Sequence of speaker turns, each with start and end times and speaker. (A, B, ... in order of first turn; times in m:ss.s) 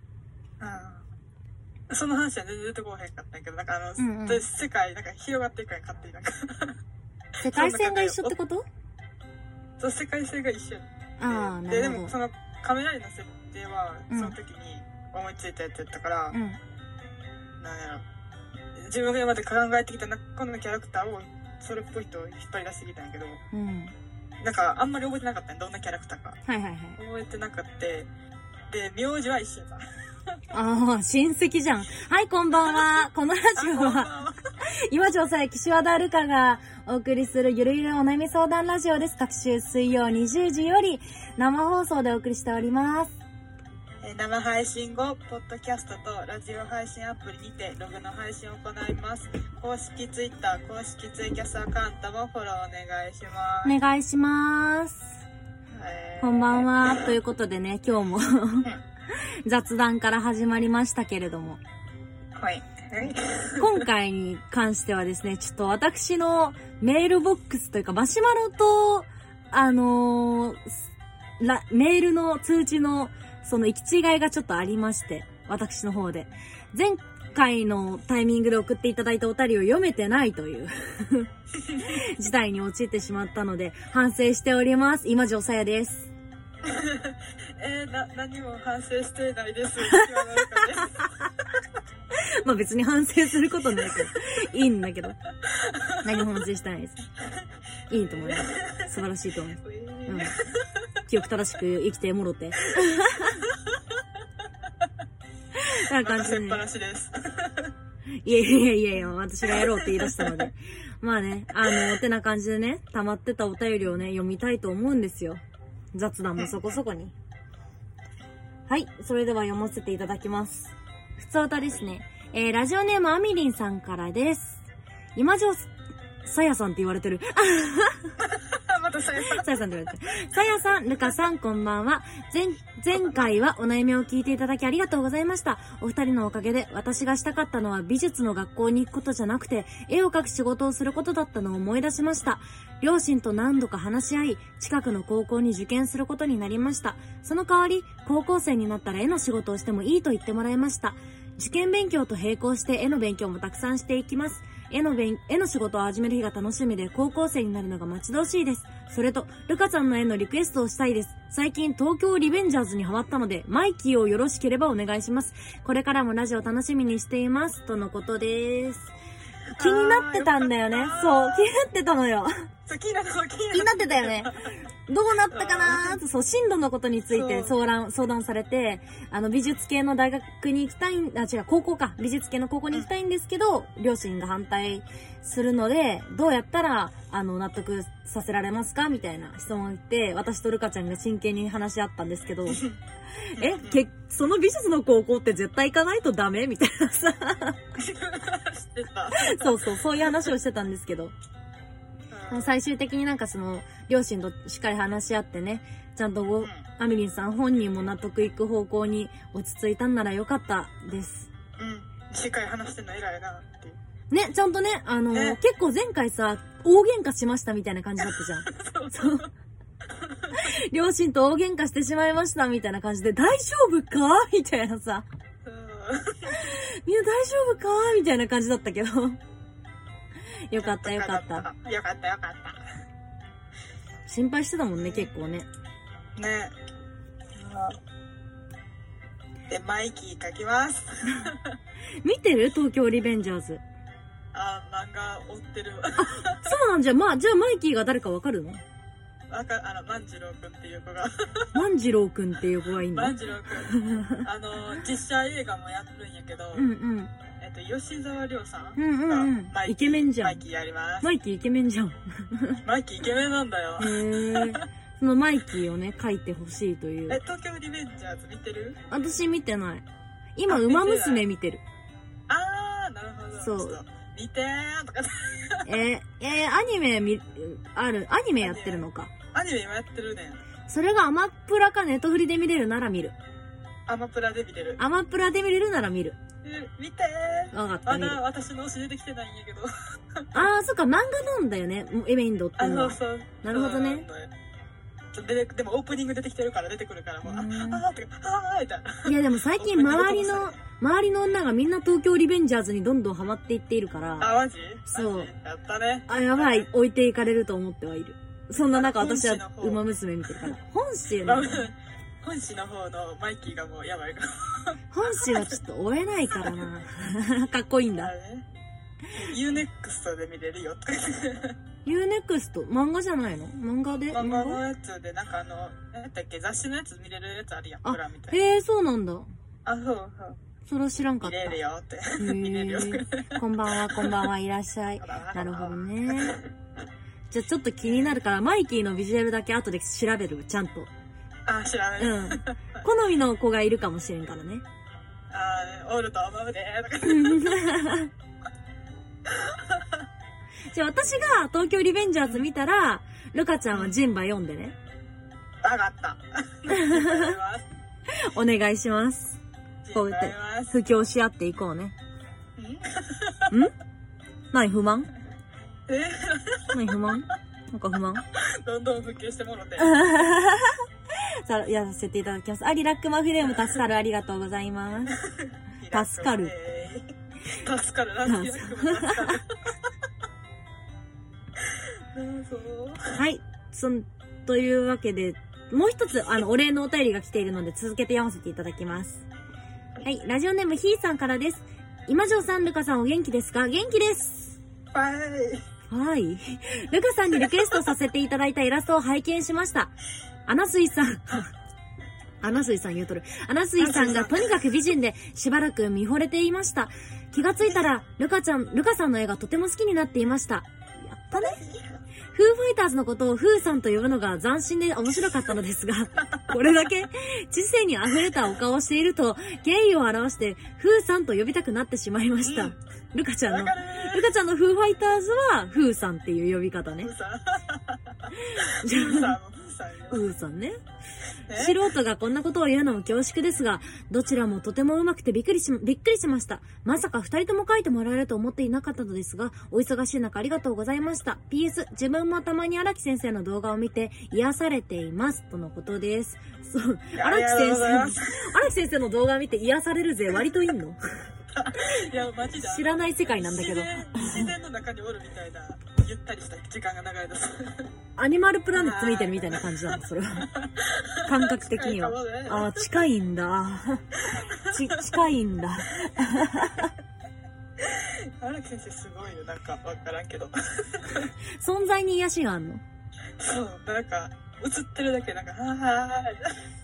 0:00.6-0:01.0 A
0:01.9-0:06.8 A
0:04.0-0:04.4 B
0:07.4-0:08.3 A
0:07.4-0:08.6 B
0:09.8-0:16.4 A
0:11.2-0:12.1 B
0:14.1-0:14.4 B
0:16.3-0:16.6 B
0:17.6-0:18.0 A
0:18.7-0:23.4 A
0:23.5-0:23.9 B
0:24.4-0:26.4 A
0:26.4-0:27.0 B
0:27.0-0:28.1 A
0:28.7-0:29.8 A
0:30.5-0:34.1 B
0:32.5-0:34.4 A
0:34.6-0:43.2 B
0:44.0-0:53.8 A
0:53.6-0:55.2 B
0:55.7-0:56.7 A
0:56.2-1:01.6 B
1:02.4-1:03.9 A
1:03.6-1:10.8 B
1:11.4-1:21.3 B
1:21.6-1:22.0 A
1:21.8-1:26.1 B
1:26.6-1:31.1 A
1:32.1-1:35.2 B
1:35.5-1:36.0 A
1:36.0-1:37.0 B
1:37.9-1:40.4 B
1:38.0-1:38.9 A
1:39.6-1:40.8 A
1:41.0-1:43.4 B
1:43.3-1:43.8 A
1:45.5-1:46.6 B
1:45.9-1:47.7 A
1:48.2-1:55.4 B
1:49.0-1:50.5 A
1:51.6-1:52.0 A
1:55.9-1:57.1 B
1:56.4-1:56.8 A
1:58.7-2:04.6 B
2:05.2-2:05.7 B
2:06.2-2:08.1 B
2:08.2-2:09.5 A
2:09.2-2:48.9 B
2:13.0-2:13.2 A
2:49.5-2:51.5 A
2:49.6-2:52.4 B
2:52.6-2:54.5 A
2:53.5-3:12.7 B
2:55.3-2:56.0 A
2:57.1-2:57.6 A
3:12.5-3:12.8 A
3:13.2-3:17.6 B
3:13.4-3:13.8 A
3:17.8-3:20.3 A
3:19.1-3:21.1 B
3:22.1-3:22.5 A
3:22.3-3:31.3 B
3:31.6-3:33.8 A
3:34.1-3:39.2 B
3:35.1-3:35.4 A
3:38.4-3:39.3 A
3:40.0-3:40.4 A
3:40.3-3:45.0 B
3:45.4-3:46.5 A
3:46.3-3:49.2 B
3:50.5-3:51.5 B
3:50.6-3:52.6 A
3:54.0-3:55.5 B
3:54.8-3:55.1 A
3:56.2-3:56.5 A
3:57.3-3:57.8 A
3:59.5-4:01.6 A
4:02.0-4:03.6 B
4:04.3-4:06.5 A
4:06.0-4:08.6 B
4:09.3-4:11.6 A
4:11.5-4:14.2 B
4:12.9-4:16.7 A
4:16.5-4:17.1 B
4:17.4-4:21.1 A
4:18.8-4:20.4 B
4:21.0-4:22.6 B
4:22.6-4:24.6 A
4:23.8-4:27.2 B
4:27.1-4:28.8 A
4:28.9-4:29.8 B
4:30.4-4:31.6 B
4:30.5-4:31.2 A
4:32.3-4:35.7 A
4:33.4-4:33.8 B
4:35.6-4:39.1 B
4:38.4-4:40.4 A
4:40.7-4:43.1 B
4:43.9-4:44.8 A
4:44.8-4:46.2 B
4:46.4-4:50.3 A
4:47.5-4:48.2 B
4:50.3-4:54.0 B
4:52.6-4:54.3 A
4:55.1-5:00.6 A
4:57.2-4:57.8 B
4:59.0-5:04.3 B
5:04.2-5:06.7 A
5:04.9-5:05.3 B
5:06.1-5:11.6 B
5:08.7-5:10.5 A
5:11.2-5:15.6 A
5:14.9-5:18.1 B
5:16.3-5:16.7 A
5:17.9-5:18.4 A
5:19.2-5:21.6 A
5:21.8-5:24.6 B
5:24.1-5:28.4 A
5:27.8-5:29.3 B
5:29.6-5:30.4 A
5:30.6-5:31.6 B
5:31.2-5:34.3 A
5:32.2-5:36.4 B
5:35.0-5:36.4 A
5:37.3-5:40.9 B
5:37.8-5:38.2 A
5:41.4-5:42.8 A
5:42.0-5:44.6 B
5:45.3-5:47.7 A
5:47.0-5:48.1 B
5:49.3-5:50.0 A
5:50.7-5:54.8 B
5:53.7-5:54.0 A
5:55.6-5:57.7 A
5:56.7-5:57.3 B
5:58.1-5:59.4 B
5:59.8-6:00.7 A
5:59.9-6:01.9 B
6:02.6-6:03.5 A
6:04.5-6:05.1 B
6:05.9-6:07.0 A
6:06.7-6:08.2 B
6:08.3-6:10.0 A
6:09.8-6:10.8 B
6:11.4-6:15.2 B
6:15.2-6:19.9 A
6:15.9-6:16.5 B
6:18.3-6:19.4 B
6:22.1-6:23.1 A
6:23.1-6:29.2 B
6:30.0-6:34.6 B
6:34.9-6:35.6 A
6:35.9-6:39.9 B
6:40.4-6:41.5 B
6:42.4-6:51.6 B
6:43.8-6:44.5 A
6:51.3-6:52.0 A
6:52.3-7:07.1 B
7:02.4-7:02.8 A
7:03.5-7:04.3 A
7:07.0-7:10.2 A
7:08.3-7:09.3 B
7:10.1-7:10.8 B
7:11.5-7:11.8 A
7:11.5-7:31.0 B
7:27.2-7:28.5 A
7:31.5-7:37.9 A
7:32.6-7:34.5 B
7:38.2-7:40.5 B
7:38.7-7:42.8 A
7:41.2-7:46.9 B
7:44.2-7:45.2 A
7:46.2-7:46.9 A
7:47.8-7:51.3 A
7:51.6-7:52.8 B
7:53.4-7:56.6 A